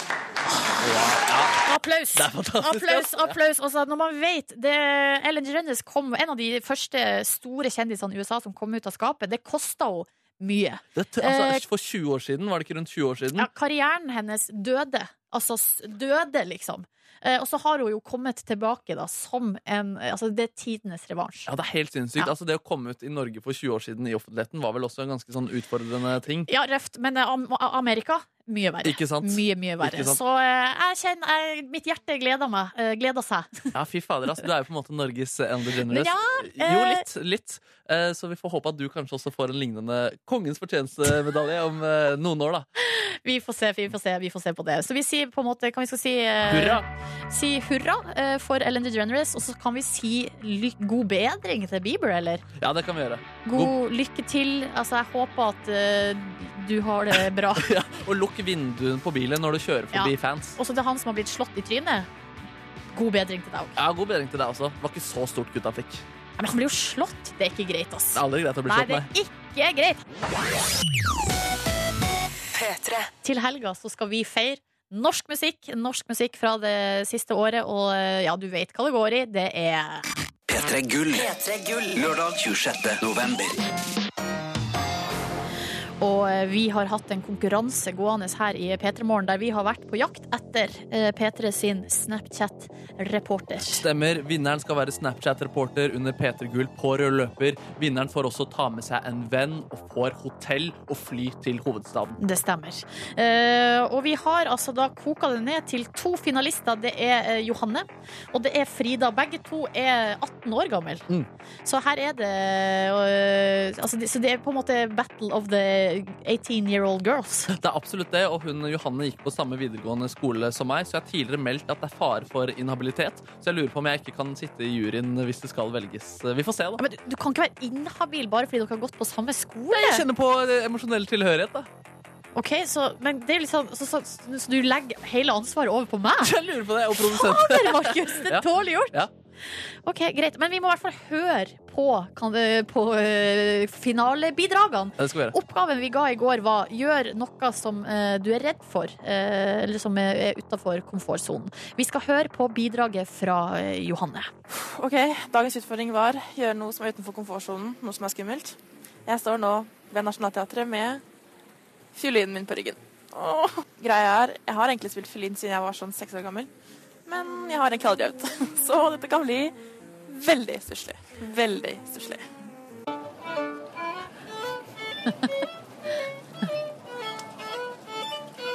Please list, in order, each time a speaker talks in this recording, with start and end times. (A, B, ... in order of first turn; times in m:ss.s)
0:00.7-0:03.4 A
0:01.6-0:11.6 B
0:11.0-0:13.5 A
0:13.4-0:21.5 B
0:21.5-0:26.5 A
0:26.5-0:33.7 B
0:28.8-0:30.2 A
0:33.7-0:42.7 A
0:35.9-0:37.0 B
0:42.8-0:52.4 B
0:46.5-0:46.9 A
0:52.6-0:53.7 A
0:53.4-0:57.7 B
0:57.6-1:00.6 A
0:59.9-1:02.1 B
1:02.9-1:03.8 B
1:03.8-1:06.0 A
1:06.4-1:10.0 B
1:08.1-1:09.1 A
1:12.6-1:13.0 C
1:13.2-1:20.0 B
1:20.5-1:23.6 C
1:26.0-1:33.8 B
1:33.6-1:42.2 A
1:42.2-1:51.0 B
1:51.6-1:57.5 B
1:57.5-2:06.8 A
2:06.8-2:10.0 B
2:09.7-2:11.7 A
2:12.3-2:16.3 B
2:16.2-2:19.1 A
2:16.9-2:19.0 B
2:19.8-2:34.3 B
2:25.0-2:25.4 A
2:34.5-2:41.0 D
2:42.0-2:46.5 D
2:47.0-2:49.5 D
2:50.1-2:52.3 D